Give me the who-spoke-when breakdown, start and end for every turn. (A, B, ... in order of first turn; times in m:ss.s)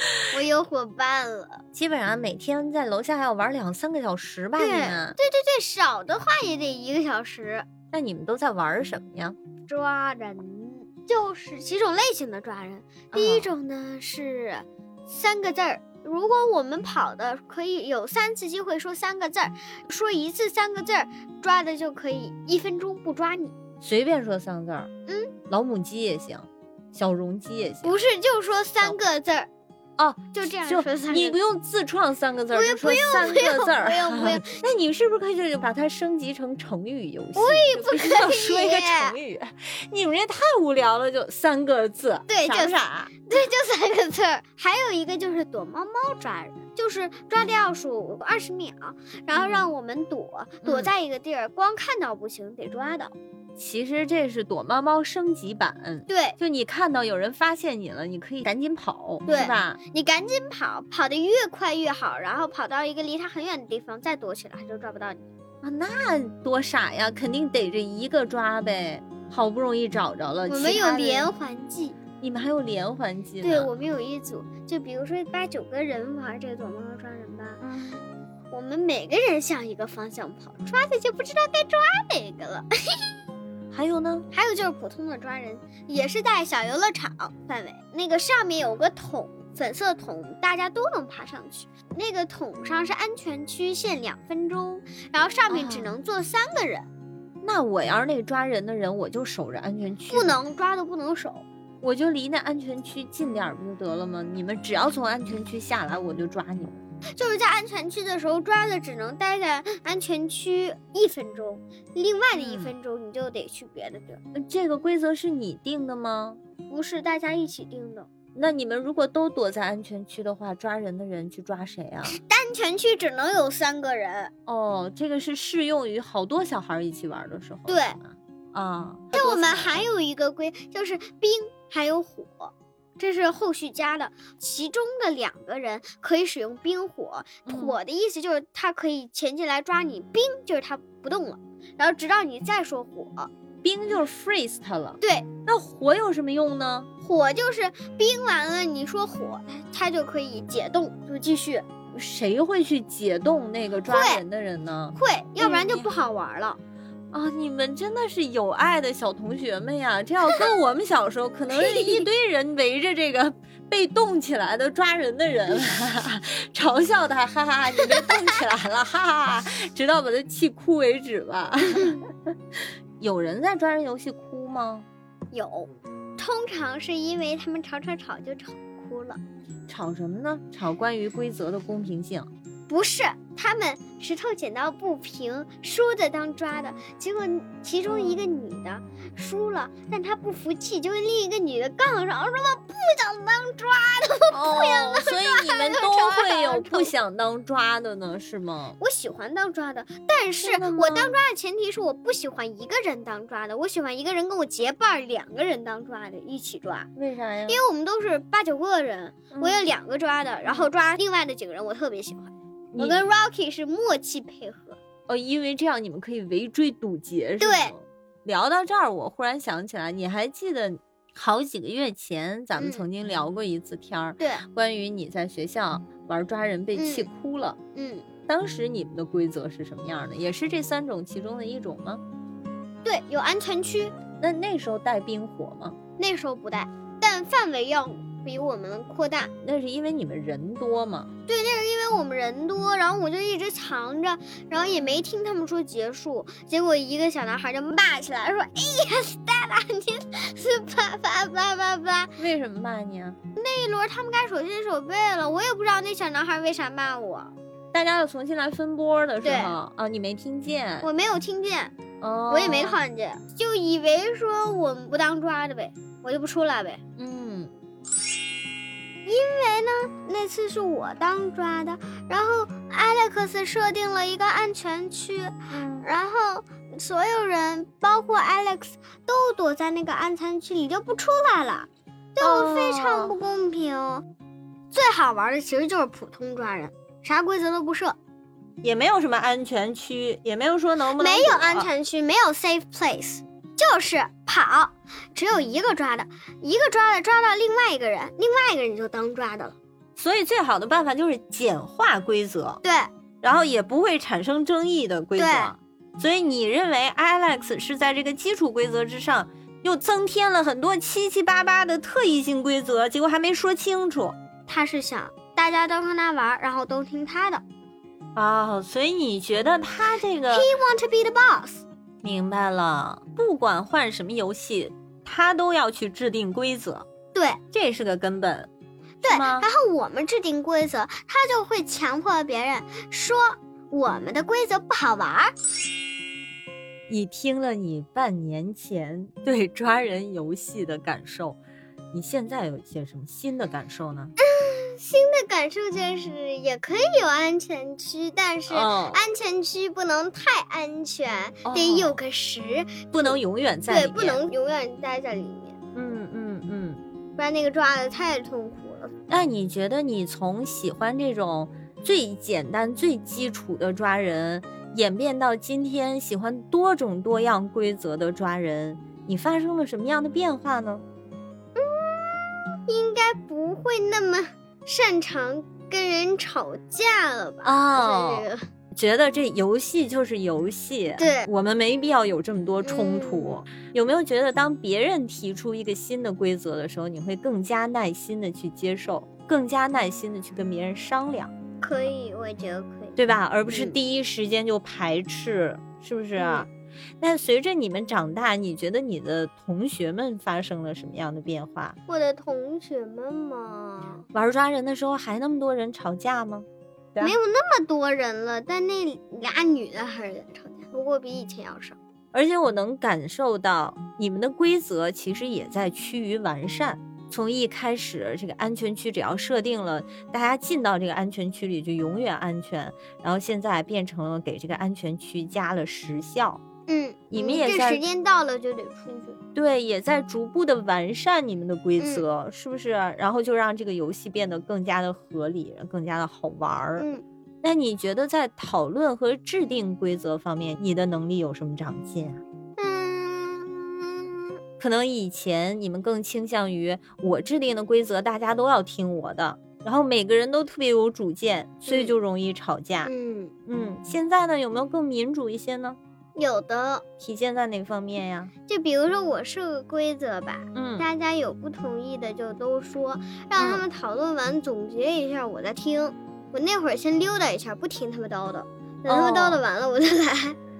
0:00.3-0:01.6 A
0:01.7-0:05.2 B
0:04.6-0:07.7 A
0:07.9-0:09.4 B
0:09.7-0:23.6 A
0:13.1-0:13.5 B
0:23.8-0:24.9 B
0:25.1-0:25.3 A
0:25.5-0:28.0 B
0:27.8-0:29.5 A
0:30.0-0:43.2 B
0:30.3-0:31.4 A
0:32.5-0:34.6 A
0:37.4-0:39.2 A
0:42.3-0:53.2 A
0:49.3-0:49.7 B
0:50.6-0:50.9 B
0:53.6-0:59.8 B
0:56.1-0:56.4 A
0:59.3-1:05.3 A
1:05.6-1:11.3 B
1:10.5-1:12.0 A
1:12.2-1:13.7 B
1:13.4-1:17.6 A
1:17.6-1:18.0 B
1:18.5-1:23.1 A
1:23.7-1:24.3 B
1:24.3-1:36.9 A
1:35.5-1:35.9 B
1:37.4-1:40.4 B
1:40.1-1:41.4 A
1:41.8-1:46.8 B
1:47.2-1:54.2 A
1:52.4-1:52.7 B
1:54.3-1:56.4 B
1:56.7-1:58.1 A
1:58.4-2:02.2 B
2:02.1-2:04.3 A
2:04.5-2:09.9 B
2:07.7-2:08.0 A
2:09.1-2:23.3 A
2:17.4-2:17.8 B
2:23.6-2:26.9 B
2:25.0-2:25.3 A
2:27.0-2:31.7 A
2:31.9-2:35.9 B
2:33.9-2:34.2 A
2:35.0-2:36.6 A
2:37.1-2:52.3 B
2:41.5-2:42.1 A
2:53.0-2:54.9 B
2:55.3-2:59.2 A
2:59.7-3:02.3 B
3:02.7-3:16.9 A
3:07.9-3:08.2 B
3:14.3-3:18.8 B
3:18.8-3:26.9 A
3:20.4-3:21.2 B
3:27.0-3:27.6 B
3:27.5-3:34.8 A
3:29.3-3:29.7 B
3:32.7-3:33.1 B
3:35.1-3:47.6 B
3:37.4-3:37.8 A
3:42.6-3:42.9 A
3:44.2-3:44.4 A
3:46.8-3:47.1 A
3:47.8-3:48.1 A
3:48.3-3:52.0 B
3:52.8-3:54.0 A
3:54.2-3:55.8 B
3:56.0-3:59.3 A
3:59.4-4:01.1 B
4:01.3-4:12.2 A
4:04.6-4:05.0 B
4:12.2-4:13.2 B
4:13.4-4:17.4 A
4:17.7-4:20.9 B
4:19.2-4:19.6 A
4:20.8-4:21.8 A
4:22.0-4:22.8 B
4:22.3-4:26.8 A
4:27.0-4:27.5 B
4:29.1-4:44.0 A
4:35.5-4:35.9 B
4:42.2-4:43.2 B
4:44.7-4:48.0 A
4:48.6-4:51.7 B
4:51.0-4:59.6 A
5:00.0-5:02.6 B
5:02.6-5:02.9 A
5:03.2-5:14.2 B
5:05.2-5:05.5 A
5:14.5-5:17.4 A
5:18.2-5:20.5 B
5:20.3-5:21.6 A
5:22.0-5:26.9 B
5:27.1-5:27.4 A
5:27.5-5:28.5 B
5:29.0-5:35.3 A
5:29.0-5:29.5 B
5:36.9-5:41.4 B
5:41.9-5:44.1 B
5:44.2-5:55.6 A
5:48.5-5:49.0 B
5:51.4-5:52.0 B
5:52.9-5:54.2 B
5:55.7-5:56.8 B
5:57.2-5:58.9 A
5:59.1-6:10.8 B
6:11.6-6:18.4 A
6:17.4-6:31.3 B
6:21.0-6:21.3 A
6:22.6-6:23.4 A
6:31.6-6:33.0 A
6:33.0-6:36.5 B
6:33.5-6:33.8 A
6:36.2-6:36.5 A
6:37.0-6:41.8 B
6:41.9-6:44.0 A
6:44.1-6:47.2 B
6:47.0-6:51.8 A
6:52.1-7:06.4 B
7:06.7-7:09.2 A
7:07.1-7:07.8 B
7:09.4-7:16.9 B
7:11.8-7:12.0 A
7:16.8-7:17.0 A
7:17.4-7:22.2 B
7:22.6-7:24.4 A
7:24.6-7:32.9 B
7:31.7-7:31.9 A
7:32.8-7:33.3 A
7:33.5-7:35.8 B
7:36.2-7:36.8 A
7:37.0-7:38.3 B
7:38.5-7:50.4 A
7:40.5-7:40.9 B
7:43.4-7:43.6 B
7:48.9-7:49.4 B